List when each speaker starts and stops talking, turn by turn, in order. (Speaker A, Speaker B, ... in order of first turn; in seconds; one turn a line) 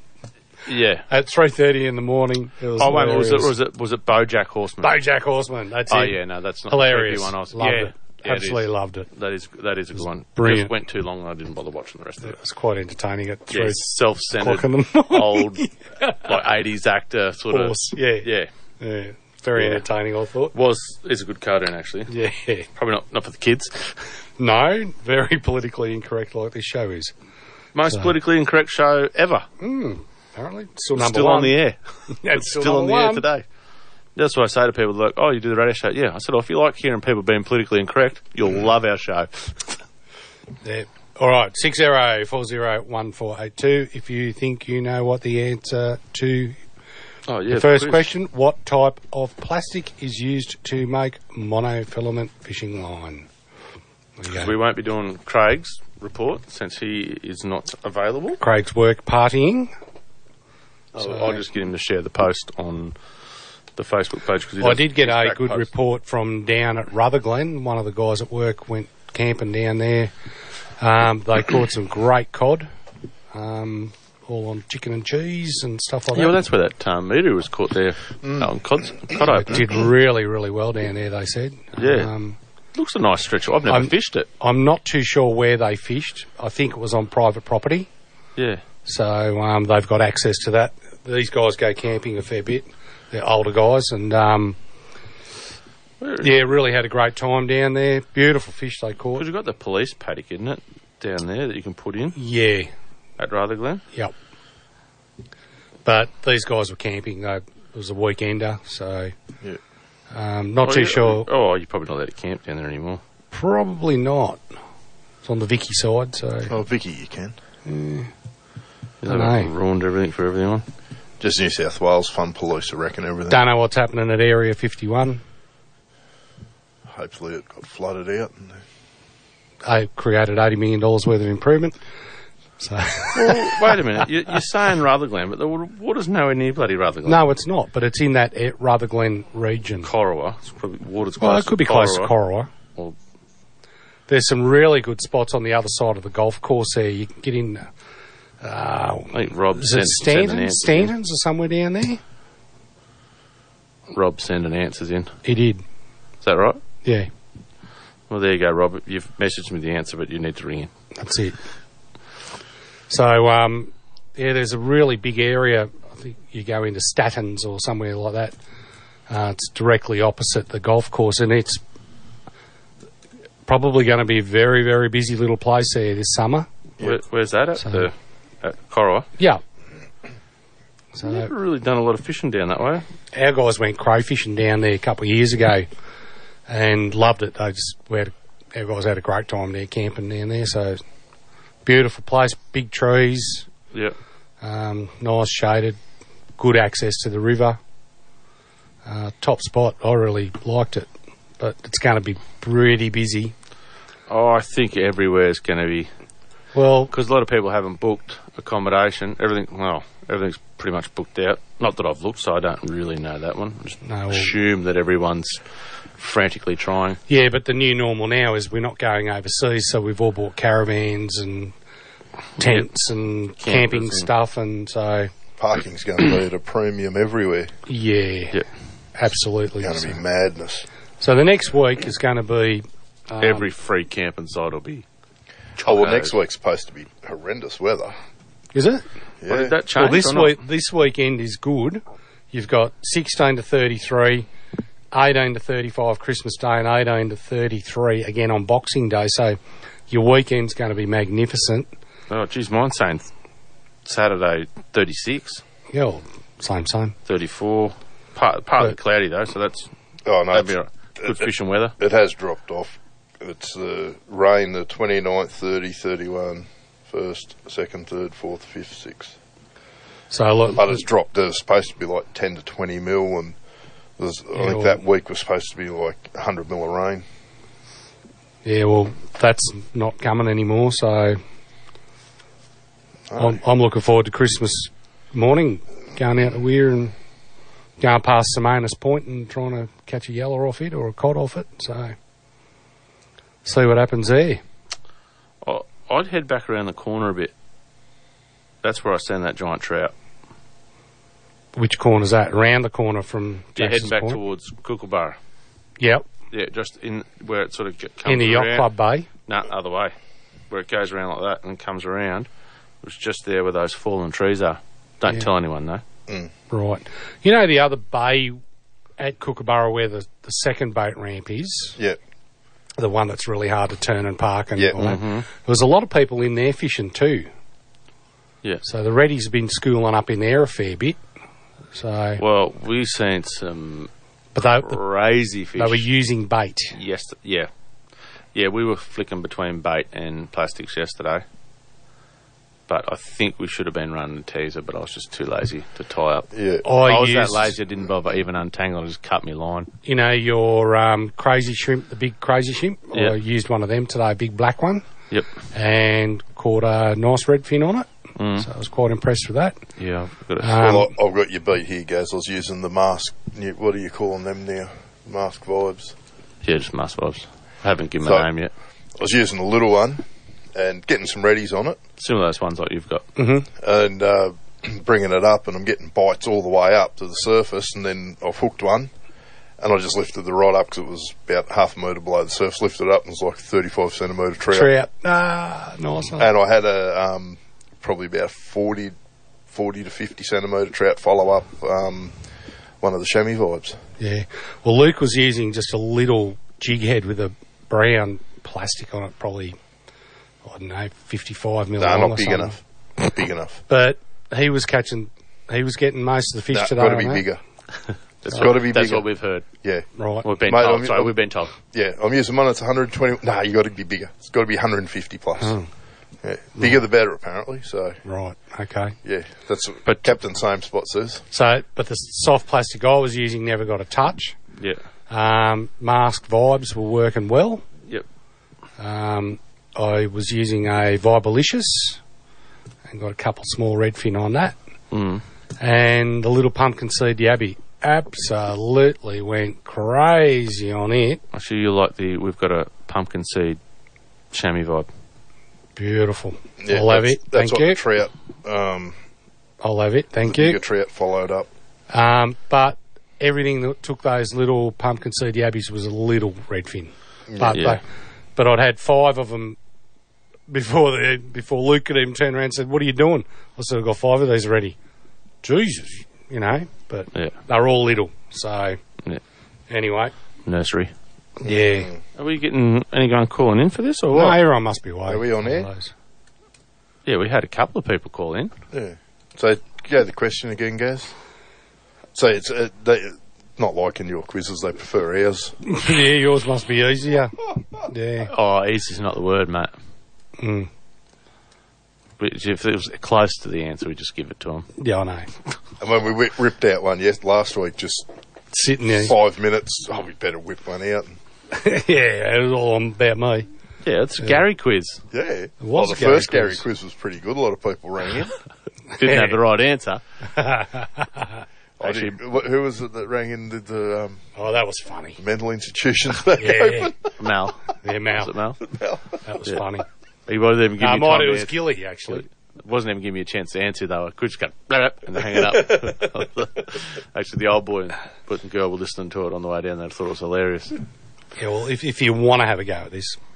Speaker A: 0.7-1.1
Speaker B: 1.1-3.5
Speaker A: 2.8-5.0
Speaker B: 4.8-9.1
Speaker A: 5.9-12.4
Speaker B: 10.4-10.7
Speaker B: 12.2-16.4
Speaker A: 13.5-15.7
Speaker A: 16.2-18.5
Speaker B: 17.5-18.3
Speaker B: 18.8-20.6
Speaker A: 19.6-19.8
Speaker A: 20.5-22.1
Speaker B: 22.1-22.7
Speaker A: 22.8-23.9
Speaker B: 24.4-27.1
Speaker A: 27.8-29.5
Speaker B: 27.9-28.1
Speaker B: 29.6-31.6
Speaker A: 30.9-33.4
Speaker B: 32.1-33.2
Speaker A: 34.2-39.8
Speaker B: 40.6-46.6
Speaker A: 47.3-48.1
Speaker B: 47.5-53.3
Speaker B: 54.2-54.5
Speaker A: 54.3-58.4
Speaker B: 58.4-59.7
Speaker A: 61.0-63.0
Speaker B: 61.0-61.4
Speaker A: 63.8-65.7
Speaker B: 64.6-70.1
Speaker B: 70.8-72.7
Speaker B: 73.3-76.4
Speaker A: 76.1-79.8
Speaker B: 79.3-82.4
Speaker A: 81.8-82.1
Speaker A: 82.7-84.3
Speaker B: 83.7-87.9
Speaker A: 88.4-88.6
Speaker B: 88.9-94.6
Speaker A: 96.0-96.5
Speaker B: 96.2-99.3
Speaker A: 99.2-102.2
Speaker B: 102.2-102.7
Speaker A: 103.2-103.8
Speaker B: 105.8-109.1
Speaker B: 110.1-111.3
Speaker A: 110.6-113.0
Speaker B: 113.3-114.4
Speaker B: 115.2-116.5
Speaker C: 116.5-117.4
Speaker B: 117.7-118.1
Speaker A: 119.0-120.7
Speaker B: 119.1-119.5
Speaker C: 121.2-123.5
Speaker B: 123.3-125.2
Speaker C: 126.9-128.6
Speaker B: 129.6-131.8
Speaker B: 132.6-133.8
Speaker A: 133.1-137.3
Speaker B: 137.1-139.9
Speaker A: 139.8-142.1
Speaker B: 141.2-142.5
Speaker B: 144.1-147.7
Speaker B: 148.4-152.0
Speaker A: 149.1-150.9
Speaker A: 153.9-155.2
Speaker B: 155.2-155.6
Speaker A: 156.2-156.6
Speaker B: 156.8-157.1
Speaker A: 158.1-160.7
Speaker B: 161.0-161.4
Speaker B: 162.9-168.3
Speaker B: 169.1-171.6
Speaker B: 173.5-176.5
Speaker A: 176.8-179.1
Speaker B: 177.6-177.9
Speaker B: 180.9-181.3
Speaker A: 181.0-182.8
Speaker B: 183.1-185.7
Speaker B: 186.5-190.8
Speaker B: 191.7-193.5
Speaker B: 194.4-195.8
Speaker B: 196.4-197.6
Speaker B: 198.8-200.9
Speaker B: 201.4-203.3
Speaker A: 204.1-205.9
Speaker B: 206.5-206.9
Speaker A: 206.9-215.4
Speaker B: 213.8-214.3
Speaker A: 216.0-217.0
Speaker B: 217.1-221.5
Speaker B: 222.4-225.1
Speaker A: 222.4-222.7
Speaker A: 223.4-224.1
Speaker C: 225.4-227.5
Speaker B: 227.7-228.4
Speaker B: 229.0-230.0
Speaker C: 229.6-230.7
Speaker B: 231.0-233.5
Speaker A: 233.2-234.8
Speaker A: 235.6-236.1
Speaker C: 235.6-237.9
Speaker B: 238.5-238.8
Speaker C: 239.2-239.6
Speaker A: 239.3-240.4
Speaker B: 239.8-244.3
Speaker B: 244.9-249.4
Speaker B: 249.9-251.7
Speaker A: 252.1-253.1
Speaker A: 253.8-255.4
Speaker B: 255.7-256.9
Speaker A: 257.1-259.7
Speaker C: 260.1-269.2
Speaker A: 260.3-261.8
Speaker B: 270.1-270.8
Speaker C: 270.5-273.4
Speaker C: 274.0-277.1
Speaker B: 274.4-274.8
Speaker B: 278.4-281.2
Speaker C: 283.1-283.4
Speaker B: 283.2-286.9
Speaker B: 287.8-292.0
Speaker B: 293.4-294.4
Speaker A: 295.4-297.3
Speaker A: 298.6-299.9
Speaker B: 301.6-304.2
Speaker A: 303.6-305.2
Speaker B: 305.8-306.1
Speaker A: 306.3-308.7
Speaker B: 308.1-309.1
Speaker A: 309.3-309.9
Speaker A: 310.5-312.3
Speaker A: 312.8-315.8
Speaker C: 316.1-316.3
Speaker B: 316.5-318.4
Speaker B: 319.0-321.8
Speaker B: 322.8-327.3
Speaker A: 324.8-325.3
Speaker B: 328.6-331.0
Speaker B: 331.7-332.2
Speaker A: 332.2-333.9
Speaker B: 334.4-334.8
Speaker A: 334.6-335.9
Speaker B: 335.6-336.8
Speaker A: 336.8-337.5
Speaker A: 338.3-341.2
Speaker A: 342.7-349.7
Speaker C: 346.3-346.6
Speaker B: 346.6-347.6
Speaker B: 349.9-354.9
Speaker B: 355.5-359.6
Speaker A: 358.2-358.5
Speaker A: 359.8-360.7
Speaker B: 360.4-360.9
Speaker C: 360.6-365.9
Speaker A: 366.4-368.5
Speaker C: 368.0-368.3
Speaker C: 369.0-371.8
Speaker A: 372.0-373.1
Speaker B: 373.2-373.5
Speaker C: 373.6-378.9
Speaker C: 379.6-384.7
Speaker B: 384.5-386.3
Speaker C: 386.2-388.9
Speaker C: 389.5-392.2
Speaker C: 392.8-393.8
Speaker B: 394.0-399.6
Speaker B: 400.4-402.6
Speaker C: 401.8-403.6
Speaker B: 403.7-407.3
Speaker C: 406.5-407.4
Speaker A: 408.2-409.4
Speaker C: 408.4-409.1
Speaker C: 409.6-409.9
Speaker B: 410.0-410.3
Speaker A: 410.2-411.5
Speaker C: 410.4-415.6
Speaker B: 415.4-415.7
Speaker C: 416.2-418.0
Speaker B: 418.1-418.9
Speaker C: 419.0-421.2
Speaker B: 421.3-424.4
Speaker B: 425.1-427.6
Speaker B: 428.8-432.0
Speaker B: 432.9-434.6
Speaker A: 434.9-435.2
Speaker B: 435.6-441.2
Speaker A: 441.3-443.6
Speaker A: 444.3-444.9
Speaker B: 445.8-447.8
Speaker C: 446.6-449.0
Speaker B: 449.6-450.6
Speaker C: 450.3-451.5
Speaker B: 451.9-457.8
Speaker C: 457.3-457.6
Speaker A: 457.5-457.8
Speaker B: 458.4-459.6
Speaker B: 460.5-464.8
Speaker B: 465.4-468.8
Speaker B: 469.7-470.1
Speaker A: 470.5-470.9
Speaker B: 471.4-471.9
Speaker C: 471.4-472.0
Speaker A: 472.2-474.4
Speaker B: 474.1-475.9
Speaker C: 475.1-475.7
Speaker A: 477.1-478.5
Speaker C: 478.7-481.1
Speaker C: 482.1-485.6
Speaker B: 485.7-488.3
Speaker A: 488.3-489.7
Speaker B: 490.4-490.7
Speaker A: 492.2-494.7
Speaker B: 494.8-495.3
Speaker C: 495.8-498.1
Speaker B: 498.5-499.1
Speaker C: 498.9-501.2
Speaker B: 501.5-503.5
Speaker A: 503.8-505.0
Speaker C: 505.1-508.4
Speaker B: 505.6-506.6
Speaker A: 509.0-510.0
Speaker B: 509.0-509.4
Speaker B: 510.3-511.4
Speaker C: 511.8-514.2
Speaker A: 511.8-512.2
Speaker B: 514.4-515.2
Speaker C: 515.2-517.1
Speaker B: 516.4-517.0
Speaker A: 517.2-518.6
Speaker B: 517.8-518.3
Speaker C: 518.7-519.0
Speaker B: 519.2-519.9
Speaker A: 520.3-530.8
Speaker B: 520.8-522.3
Speaker B: 531.4-533.2